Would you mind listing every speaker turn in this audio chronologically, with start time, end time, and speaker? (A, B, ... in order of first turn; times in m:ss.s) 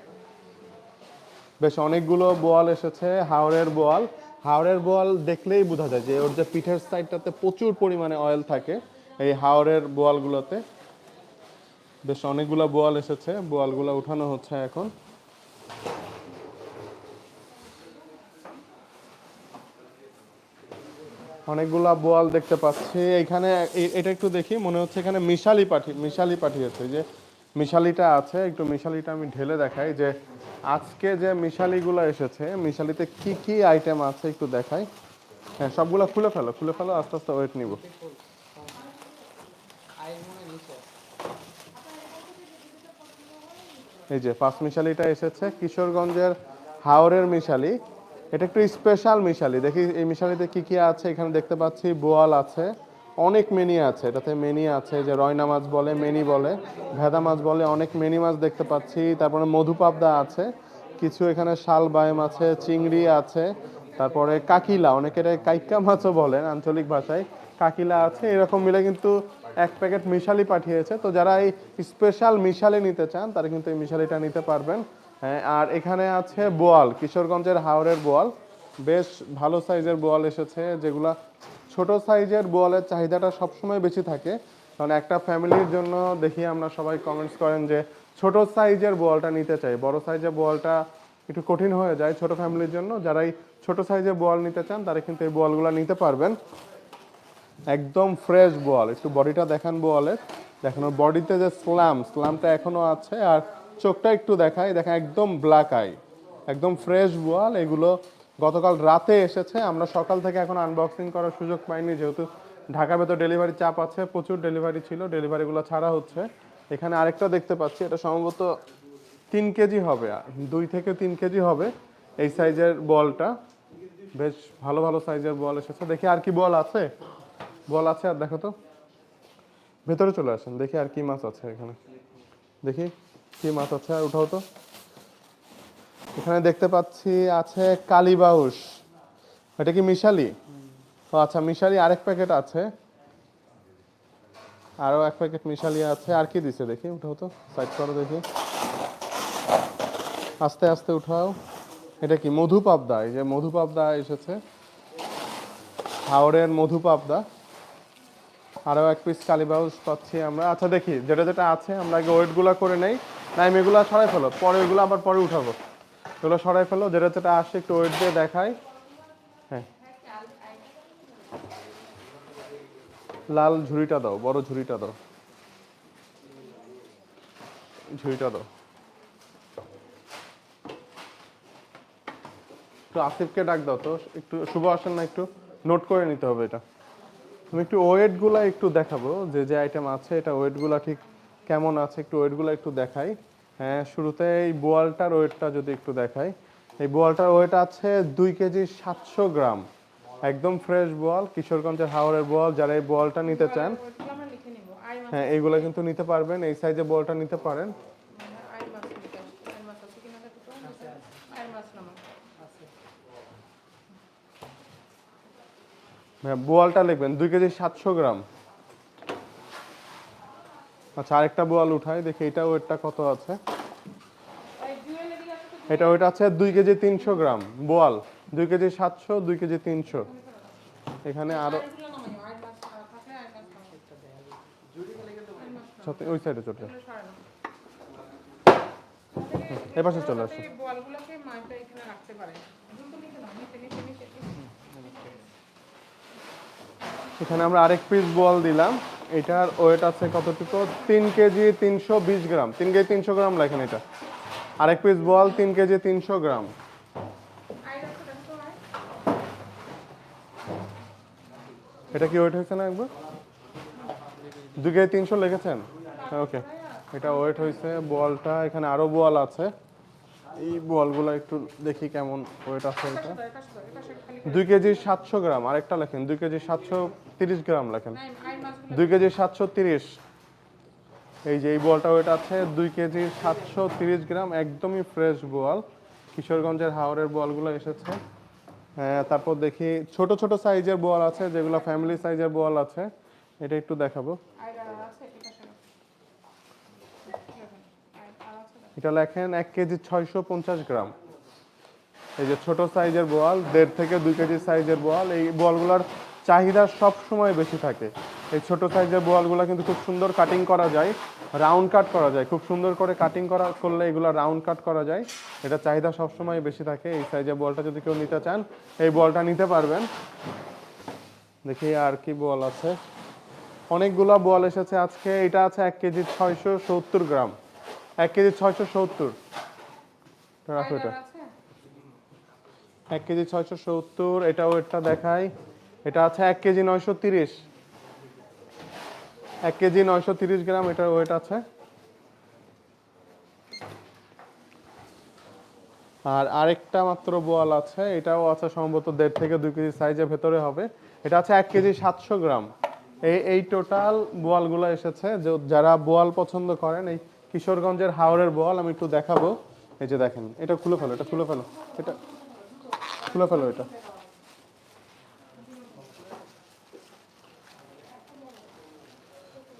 0:01.6-0:10.6 A
0:12.0-0:14.9 A
0:21.5-0:30.2 A
0:30.7-0:34.9 A
0:35.6-0:37.9 A
0:40.0-0:40.8 B
0:44.1-0:47.8 A
0:48.3-1:21.2 A
1:21.7-1:36.4 A
1:37.7-1:58.6 A
1:59.3-2:03.3 A
2:04.1-2:06.9 A
2:07.7-2:08.5 A
2:09.8-2:11.8 A
2:12.6-2:14.4 A
2:16.2-2:18.8 A
2:19.6-2:20.4 A
2:21.1-2:22.7 A
2:24.8-2:28.2 A
2:30.4-2:31.4 A
2:32.0-2:34.4 A
2:36.1-2:37.2 A
2:38.7-2:45.6 A
2:46.2-2:48.6 A
2:50.0-2:50.6 B
2:53.3-2:55.0 A
2:57.9-2:58.5 A
3:02.9-3:06.6 A
3:07.5-3:19.6 A
3:20.2-3:23.8 A
3:23.3-3:25.3 B
3:25.1-3:27.7 A
3:28.1-3:32.0 B
3:36.2-3:38.2 A
3:41.0-3:43.4 A
3:44.6-3:45.7 B
3:45.7-3:50.1 A
3:50.1-3:50.5 B
3:51.0-3:51.7 A
3:51.3-3:54.1 B
3:55.1-3:56.0 B
3:55.8-3:56.7 A
3:56.6-3:57.2 B
3:59.1-4:05.2 B
3:59.5-4:00.5 A
4:07.2-4:13.8 A
4:14.6-4:16.5 A
4:17.6-4:18.6 B
4:21.9-4:22.9 A
4:24.6-4:29.5 A
4:26.0-4:26.9 B
4:30.4-4:33.2 A
4:33.1-4:34.5 B
4:34.2-4:38.0 A
4:38.0-4:38.9 B
4:38.7-4:39.9 A
4:41.3-4:48.0 A
4:48.8-4:54.2 A
4:54.4-4:55.6 B
4:57.0-4:58.7 B
4:58.8-5:00.9 A
5:02.2-5:19.9 A
5:21.4-5:22.8 A
5:23.7-5:27.3 A
5:28.0-5:29.2 A
5:30.5-5:31.0 A
5:30.5-5:31.3 B
5:32.9-5:35.3 A
5:35.8-5:37.4 A
5:39.4-5:41.4 A
5:46.1-5:52.5 A
5:53.0-6:02.0 A
6:03.0-6:03.7 A